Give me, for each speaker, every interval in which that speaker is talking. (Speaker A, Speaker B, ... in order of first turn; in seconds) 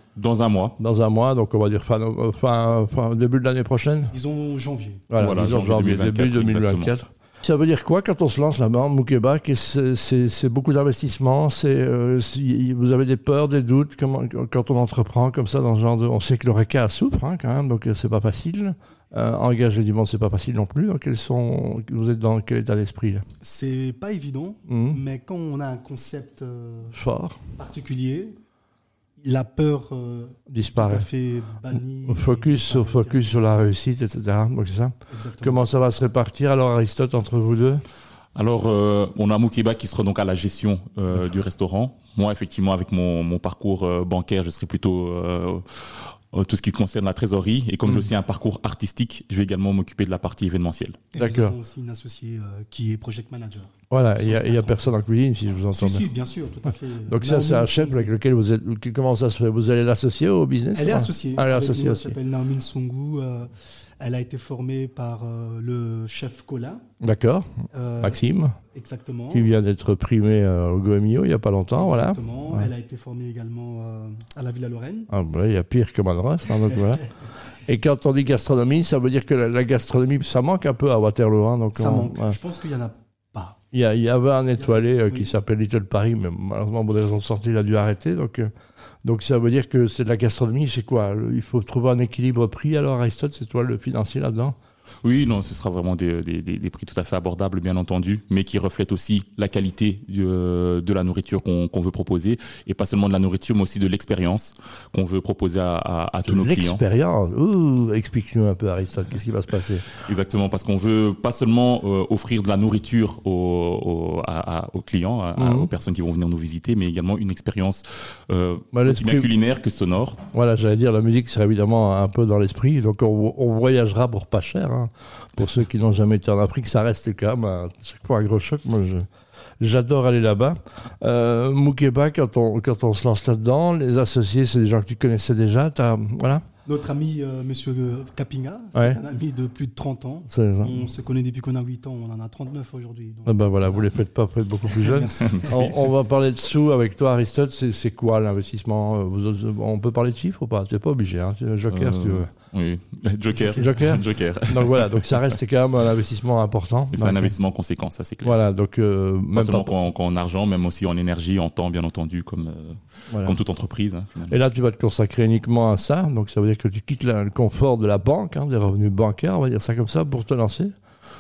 Speaker A: 0.1-0.8, 5.2-6.9, 38.4-51.1, 95.0-106.8, 110.0-120.2, 145.4-145.8, 151.7-155.4, 156.9-158.4, 159.3-164.4
Speaker B: 0.8-4.1, 5.1-23.2, 24.7-25.0, 26.9-27.4, 30.5-31.1, 32.1-37.8, 51.2-51.5, 53.9-56.1, 57.1-62.2, 67.0-67.5, 68.0-68.6, 69.3-72.7, 75.1-77.1, 77.7-82.4, 83.7-88.5, 89.0-94.6, 106.2-109.9, 115.4-115.7, 118.7-119.3, 120.3-129.1, 129.6-136.4, 140.3-140.8, 143.3-152.3, 153.6-157.3, 158.2-159.7, 163.1-163.4, 164.3-170.7
Speaker C: 4.1-5.1, 23.4-27.0, 27.6-28.4, 29.2-33.6, 35.1-35.7, 51.1-54.9, 55.7-58.1, 60.7-66.8, 67.7-69.5, 71.8-75.1, 81.7-83.6, 84.6-85.3, 136.7-143.9, 144.6-145.8, 153.3-153.8